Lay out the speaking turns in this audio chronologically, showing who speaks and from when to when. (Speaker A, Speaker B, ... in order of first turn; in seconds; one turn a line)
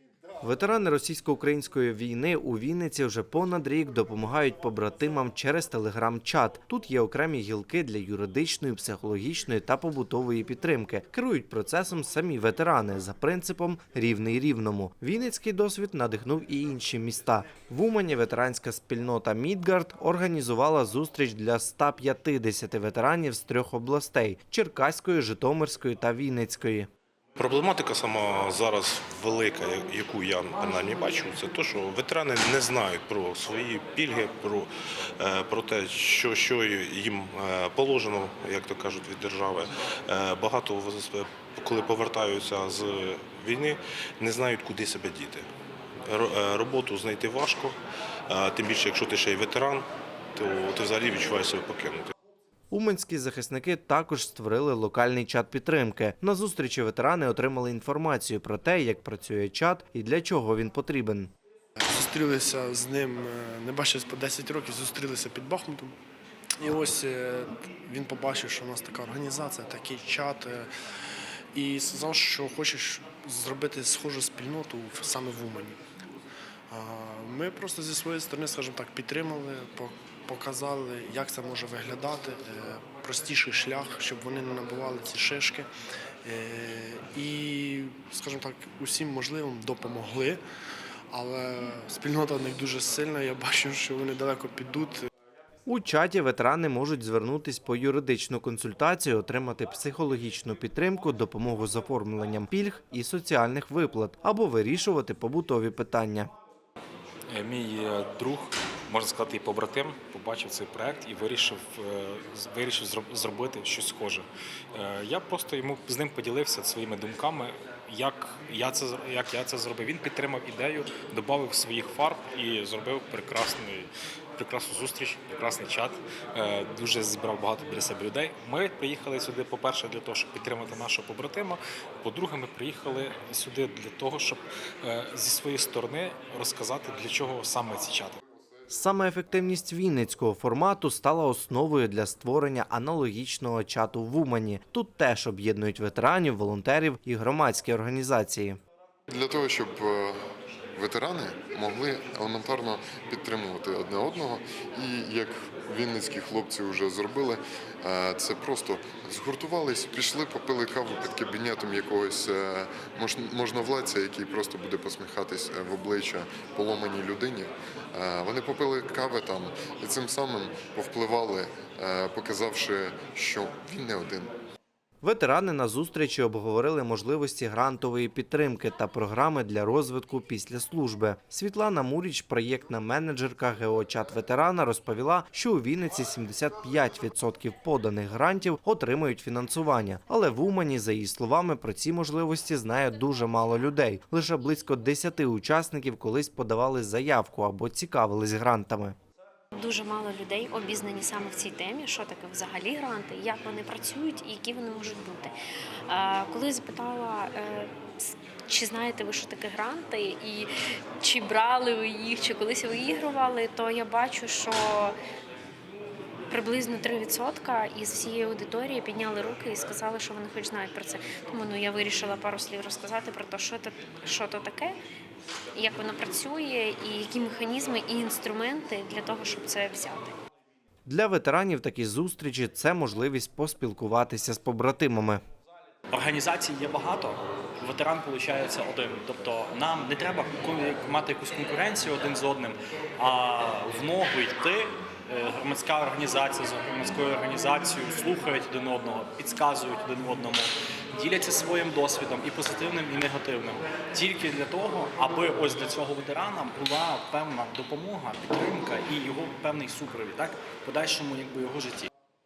Speaker A: 0.4-26.9
Speaker B: 27.4-45.5
Speaker B: 46.1-47.8
Speaker B: 48.3-52.1
Speaker A: 52.7-61.3
Speaker C: 61.8-66.0
Speaker C: 66.6-70.7
Speaker C: 71.5-75.8
Speaker C: 76.7-85.7
Speaker C: 86.2-90.4
Speaker C: 91.1-95.1
Speaker A: 95.7-106.3
Speaker D: 107.3-138.2
Speaker A: 138.7-148.6
Speaker E: 149.1-150.2
Speaker E: 150.8-174.3
Speaker A: 175.0-198.9
Speaker F: 199.6-205.3
Speaker F: 205.9-210.5
Speaker F: 211.0-214.9
Speaker F: 216.3-224.8
Speaker F: 225.5-230.1
Speaker A: 230.8-235.2
Speaker G: 235.9-261.9